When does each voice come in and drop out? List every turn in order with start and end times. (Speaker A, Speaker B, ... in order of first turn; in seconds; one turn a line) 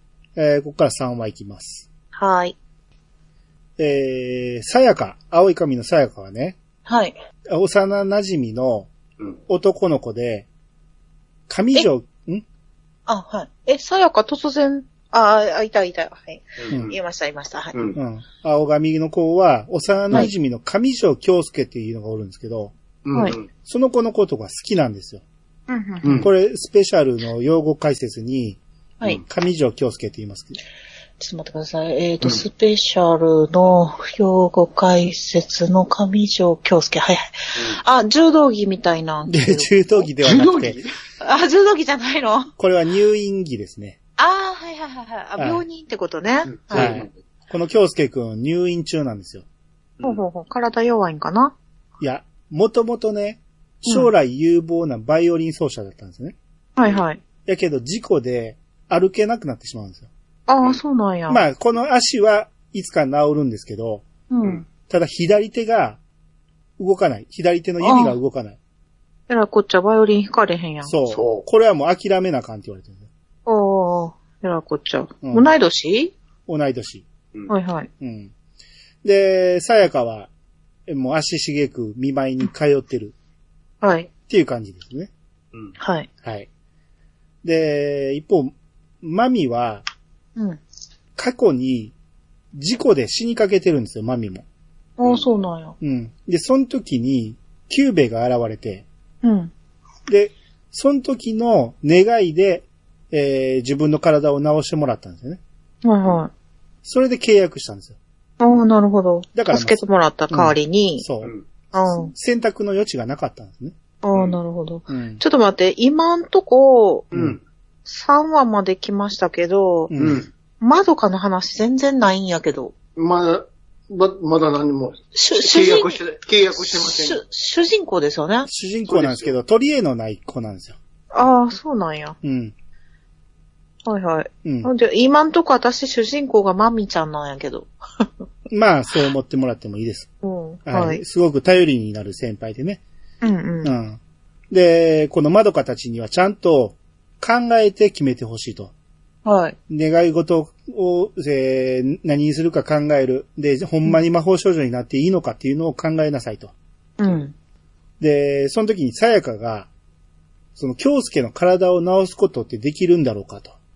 Speaker A: 0.3-1.9
Speaker B: 2.1-2.5
Speaker A: 3.8-6.6
Speaker B: 6.8-7.2
Speaker A: 7.5-8.9
Speaker A: 9.5-10.5
Speaker A: 11.5-12.4
Speaker B: 13.1-17.7
Speaker C: 16.6-16.9
Speaker A: 17.9-22.7
Speaker C: 23.0-23.5
Speaker A: 23.5-25.2
Speaker B: 25.7-26.2
Speaker C: 26.0-26.3
Speaker A: 26.2-28.6
Speaker A: 29.2-30.6
Speaker B: 31.2-39.7
Speaker A: 39.3-40.8
Speaker C: 40.2-40.9
Speaker B: 41.2-42.5
Speaker A: 42.6-44.0
Speaker B: 44.2-46.9
Speaker A: 45.4-45.6
Speaker C: 46.5-47.1
Speaker A: 46.7-49.4
Speaker B: 50.0-51.5
Speaker A: 52.0-56.4
Speaker B: 56.8-57.2
Speaker A: 57.5-60.1
Speaker B: 60.5-61.4
Speaker A: 61.3-64.0
Speaker B: 64.3-64.7
Speaker A: 64.9-66.0
Speaker A: 66.8-68.6
Speaker B: 67.8-68.2
Speaker B: 69.3-70.9
Speaker A: 70.8-73.1
Speaker C: 71.1-71.5
Speaker B: 73.5-76.1
Speaker A: 75.2-75.5
Speaker A: 76.5-77.0
Speaker B: 77.5-77.9
Speaker A: 78.0-78.3
Speaker A: 79.0-80.3
Speaker A: 80.9-83.1
Speaker B: 83.8-84.1
Speaker A: 84.3-85.1
Speaker B: 85.8-86.1
Speaker A: 86.2-86.5
Speaker A: 87.4-89.8
Speaker A: 91.2-91.9
Speaker A: 92.5-94.4
Speaker B: 95.0-95.8
Speaker A: 95.8-98.8
Speaker B: 99.2-99.5
Speaker A: 100.1-105.4
Speaker B: 105.8-106.3
Speaker A: 106.8-108.0
Speaker B: 108.4-111.0
Speaker A: 109.3-113.7
Speaker B: 111.7-112.1
Speaker B: 114.0-117.1
Speaker A: 114.9-115.2
Speaker C: 117.1-117.4
Speaker B: 117.8-119.9
Speaker A: 119.9-120.2
Speaker C: 120.0-120.3
Speaker B: 120.6-122.7
Speaker C: 123.0-127.2
Speaker B: 125.1-126.0
Speaker B: 126.6-128.5
Speaker A: 128.4-130.8
Speaker C: 128.9-129.3
Speaker B: 131.1-132.2
Speaker A: 132.2-132.5
Speaker B: 133.8-138.1
Speaker A: 134.4-134.7
Speaker A: 138.5-140.1
Speaker B: 140.2-141.0
Speaker A: 140.7-142.8
Speaker B: 143.2-143.7
Speaker A: 143.6-148.7
Speaker B: 149.2-149.6
Speaker A: 149.7-156.5
Speaker B: 157.0-157.3
Speaker A: 158.0-159.7
Speaker A: 160.6-163.5